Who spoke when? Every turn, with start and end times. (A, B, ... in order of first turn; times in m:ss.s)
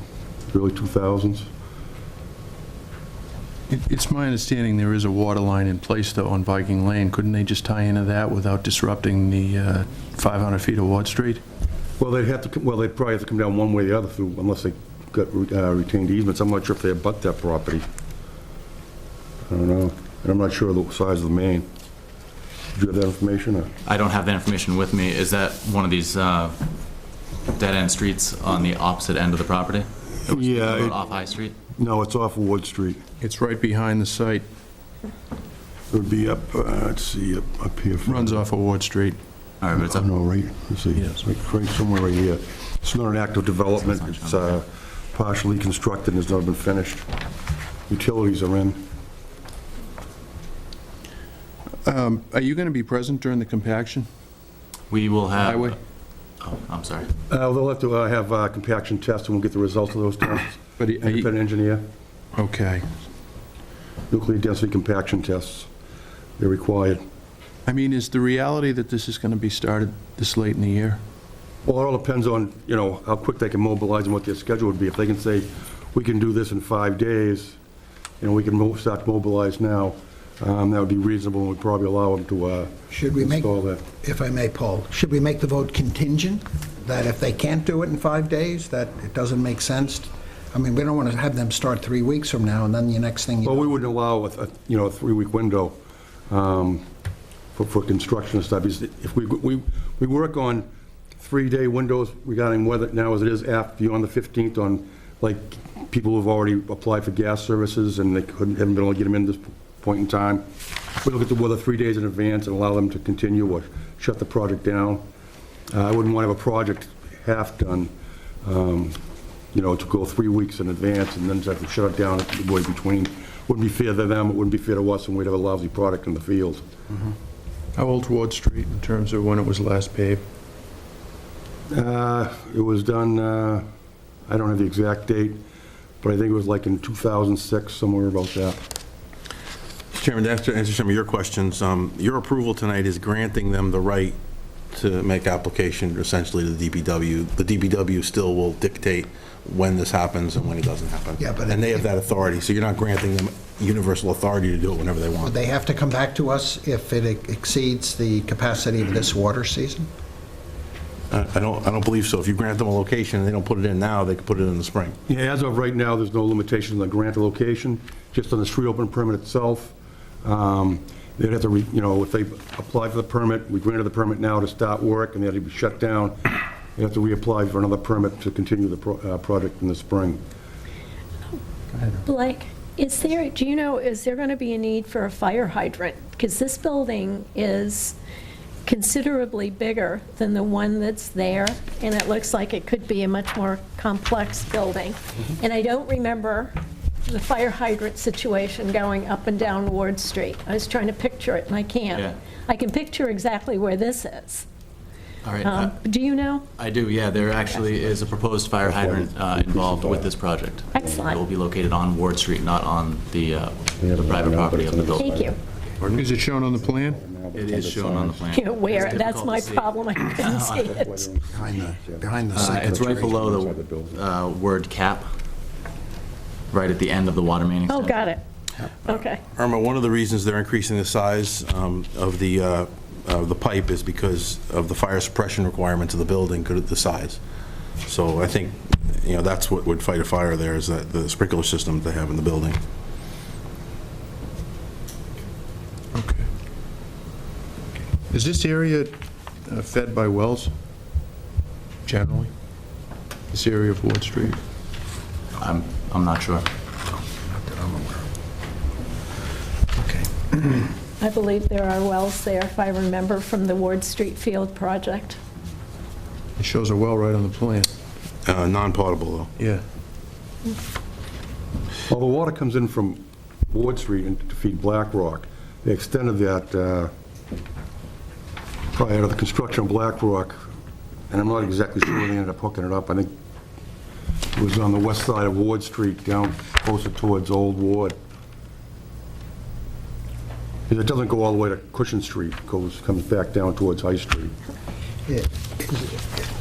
0:00.5-0:01.5 A
0:03.7-0:11.4 B
0:12.0-0:17.9 A
0:19.5-0:21.7 A
0:22.7-0:23.7 A
0:23.8-0:26.6 C
0:27.5-0:31.6 C
0:30.3-0:31.0 A
0:31.8-0:33.0 A
0:33.2-0:34.4 B
0:35.9-0:38.4 A
0:38.0-0:39.2 B
0:39.6-0:40.0 C
0:39.8-0:47.0 A
0:41.0-0:41.2 B
0:43.8-0:44.6 C
0:47.9-0:48.8 A
0:51.8-0:54.1 B
0:54.9-0:55.7 C
0:55.3-0:55.8 B
0:56.4-0:57.1 C
0:57.3-1:01.9 A
1:00.8-1:01.3 B
1:02.4-1:02.9 B
1:04.1-1:05.7 A
1:06.4-1:07.0 A
1:07.7-1:11.0 B
1:11.6-1:17.6 A
1:18.2-1:23.8 A
1:22.9-1:33.7 D
1:33.4-1:35.8 A
1:36.3-1:36.8 A
1:37.5-1:50.5 A
1:51.0-1:55.0 A
1:55.7-1:57.9 A
1:58.4-1:59.0 A
1:59.5-2:06.7 A
2:07.8-2:10.2 B
2:11.7-2:13.6 A
2:14.3-2:15.4 A
2:16.0-2:18.6 A
2:19.9-2:24.2 E
2:24.7-2:35.4 E
2:31.2-2:31.9 D
2:35.2-2:39.9 D
2:41.1-2:45.0 E
2:45.1-3:00.2 A
3:02.0-3:07.9 F
3:08.7-3:16.5 F
3:17.1-3:24.4 F
3:25.2-3:25.8 C
3:25.4-3:26.5 F
3:26.6-3:35.2 C
3:28.6-3:30.1 A
3:30.7-3:31.2 F
3:30.8-3:31.0 A
3:33.8-3:39.0 A
3:35.0-3:35.4 F
3:35.8-3:37.0 B
3:37.3-3:40.8 C
3:38.3-3:41.1 F
3:40.5-3:44.0 A
3:41.3-3:43.2 D
3:42.3-3:45.1 C
3:46.5-3:48.1 C
3:47.7-3:48.2 F
3:48.8-3:49.2 F
3:48.9-3:57.2 E
3:57.8-4:02.6 E
4:05.9-4:06.3 B
4:08.1-4:10.5 B
4:11.8-4:12.3 B
4:13.3-4:14.4 B
4:15.4-4:16.5 C
4:17.5-4:18.0 D
4:19.9-4:20.6 D
4:21.0-4:25.2 F
4:26.4-4:27.8 B
4:28.2-4:29.3 E
4:29.4-4:29.6 B
4:31.9-4:36.9 A
4:38.7-4:40.4 A
4:41.1-4:43.1 A
4:44.3-4:48.0 A
4:50.7-4:54.3 A
4:55.1-4:56.2 D